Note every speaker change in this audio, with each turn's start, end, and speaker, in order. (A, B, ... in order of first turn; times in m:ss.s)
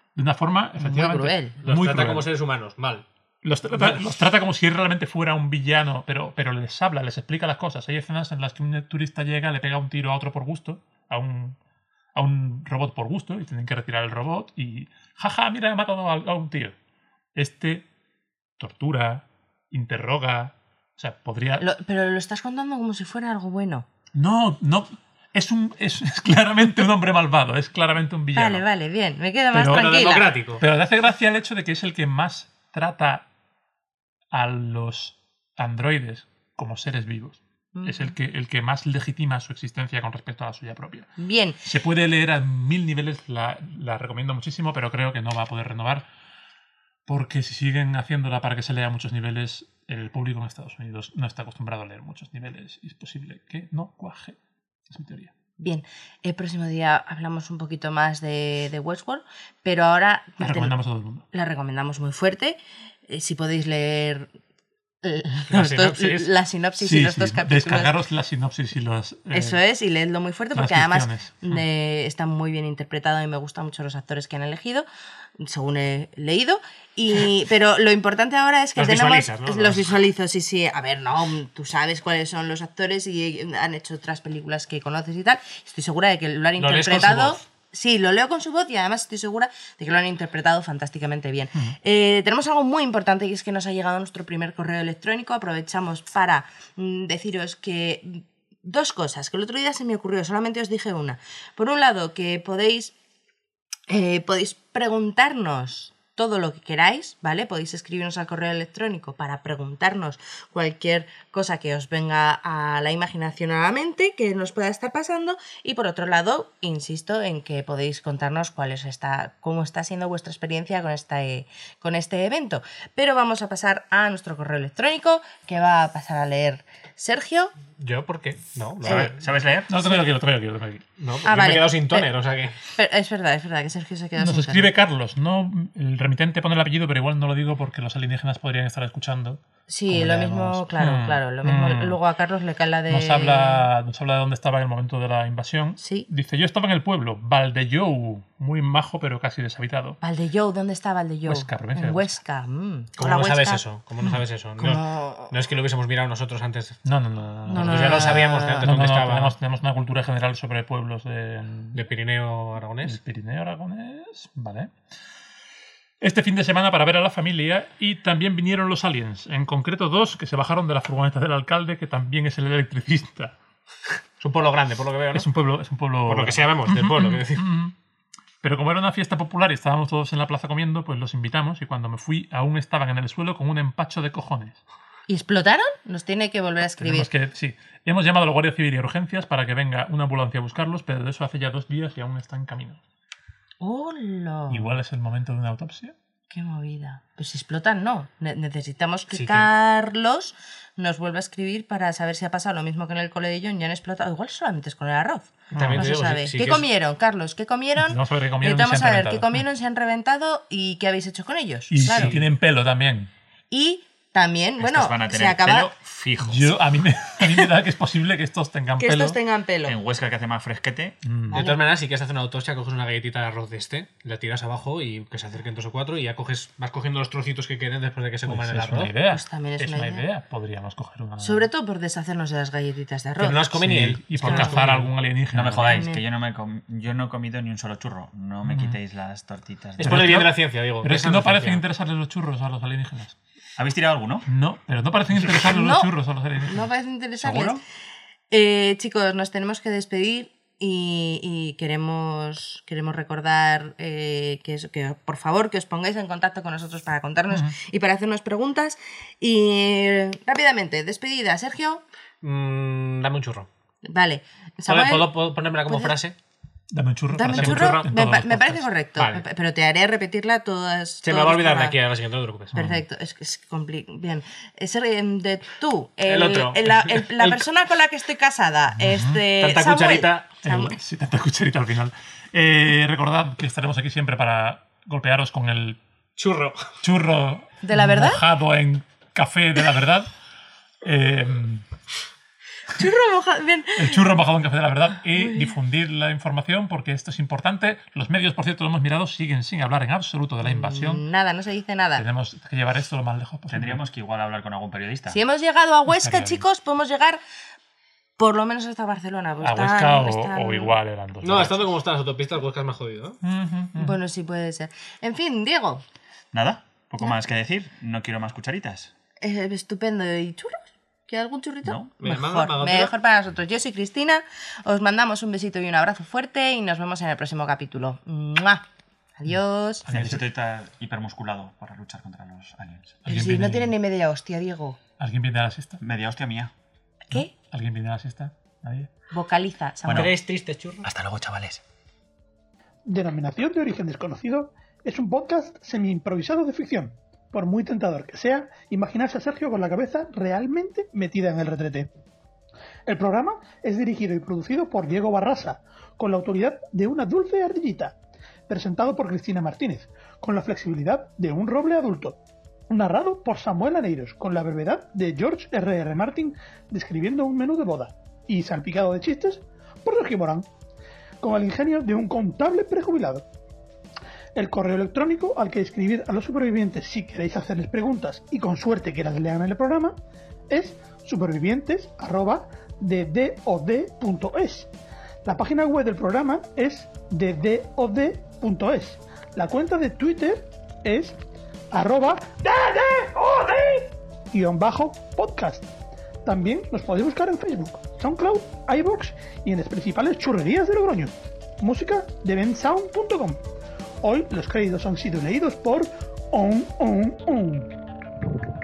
0:00.2-0:02.3 A
0:00.8-0:01.6 B
0:01.6-0:03.0 C
0:03.4-0:11.6 A
0:03.7-0:04.0 C
0:12.1-0:16.7 A
0:17.4-0:17.8 A
0:18.6-0:21.7 A
0:21.6-0:23.9 B
0:24.1-0:28.6 A
0:28.3-0:30.3 B
0:29.5-0:29.9 A
0:29.7-0:30.6 C
0:30.6-0:33.2 A
0:34.3-0:41.1 A
0:37.7-0:38.1 B
0:41.2-0:41.6 B
0:41.6-0:46.0 A
0:47.1-0:54.4 A
0:54.9-0:55.3 A
0:55.6-1:00.7 B
1:00.4-1:01.2 A
1:01.3-1:04.3 B
1:05.0-1:07.9 B
1:05.5-1:06.3 C
1:06.8-1:09.6 A
1:09.3-1:14.9 B
1:10.5-1:11.6 A
1:15.4-1:42.9 B
1:18.8-1:19.9 C
1:26.6-1:27.4 C
1:43.9-2:07.5 B
2:07.8-2:09.2 C
2:08.8-2:09.7 D
2:09.7-2:10.9 A
2:11.0-2:12.6 C
2:11.2-2:12.1 B
2:12.7-2:14.7 B
2:14.2-2:22.0 A
2:19.7-2:23.7 B
2:22.9-2:30.0 A
2:25.8-2:26.1 B
2:30.0-2:33.6 B
2:31.2-2:32.2 A
2:33.0-2:36.8 C
2:34.6-2:35.4 B
2:36.8-2:41.8 A
2:37.5-2:38.7 B
2:37.5-2:39.3 C
2:41.7-2:43.0 C
2:42.8-2:44.7 A
2:46.0-2:53.3 A
2:54.2-2:55.3 C
2:55.1-2:57.7 A
2:56.1-2:57.4 C
2:58.4-3:04.6 A
3:05.1-3:07.1 B
3:06.7-3:12.8 A
3:13.6-3:14.7 B
3:14.5-3:15.9 A
3:16.3-3:32.2 B
3:19.1-3:19.5 C
3:25.5-3:25.9 A
3:25.5-3:26.7 C
3:27.8-3:29.4 A
3:31.7-3:33.1 A
3:31.8-3:32.2 C
3:33.5-3:35.7 B
3:34.6-3:36.6 D
3:36.2-3:39.2 A
3:38.8-3:39.8 B
3:39.6-3:41.0 D
3:41.0-3:41.4 A
3:41.3-3:48.9 C
3:41.3-3:41.6 B
3:48.2-3:51.5 A
3:49.1-3:50.0 B
3:51.2-3:53.5 B
3:53.2-3:54.9 C
3:53.5-3:55.8 A
3:54.2-3:54.6 B
3:55.3-4:00.1 D
3:55.6-3:56.0 B
3:58.4-3:58.8 A
3:59.8-4:01.6 C
3:59.8-4:03.1 A
4:03.6-4:04.2 D
4:04.3-4:06.7 A
4:05.3-4:05.9 B
4:06.4-4:07.6 B
4:07.2-4:07.6 D
4:08.3-4:21.8 B
4:17.3-4:17.5 A
4:22.2-4:23.5 C
4:23.8-4:26.0 B
4:24.7-4:26.2 C
4:26.7-4:28.7 A
4:27.1-4:31.8 B
4:27.3-4:27.8 C
4:29.0-4:29.2 C
4:31.0-4:32.5 C
4:32.5-4:40.8 B
4:32.5-4:32.8 A
4:36.0-4:37.4 C
4:38.8-4:39.2 A
4:39.4-4:40.3 C
4:40.4-4:45.8 A
4:46.2-4:46.7 C
4:46.8-4:50.1 A
4:47.6-4:48.2 B
4:50.8-4:51.6 A
4:52.7-4:54.0 B
4:53.8-5:01.0 A
4:55.1-4:55.5 B
5:00.4-5:02.0 B
5:02.0-5:03.8 A
5:03.5-5:05.2 D
5:05.1-5:07.2 B
5:05.9-5:06.4 A
5:08.2-5:10.8 B
5:09.4-5:11.7 A
5:11.2-5:13.2 C
5:13.2-5:14.0 A
5:13.7-5:15.8 B
5:16.3-5:18.9 D
5:19.2-5:28.6 B
5:21.6-5:21.9 D
5:22.0-5:22.9 C
5:29.2-5:29.8 B
5:29.8-5:30.2 A
5:29.9-5:33.0 D
5:33.0-5:33.7 A
5:33.0-5:34.8 B
5:35.0-5:35.8 A
5:35.8-5:36.5 D
5:37.1-5:37.3 B
5:37.1-5:38.9 A
5:39.1-5:40.1 B
5:39.8-5:40.2 D
5:39.9-5:40.8 C
5:40.8-5:41.6 D
5:42.9-5:51.9 E
5:52.9-5:58.0 E
5:58.5-6:10.5 E
6:11.2-6:13.2 E
6:14.4-6:20.0 E
6:20.5-6:24.7 E
6:25.2-6:31.2 E
6:31.7-6:35.7 E
6:36.2-6:43.4 E
6:44.0-6:47.7 E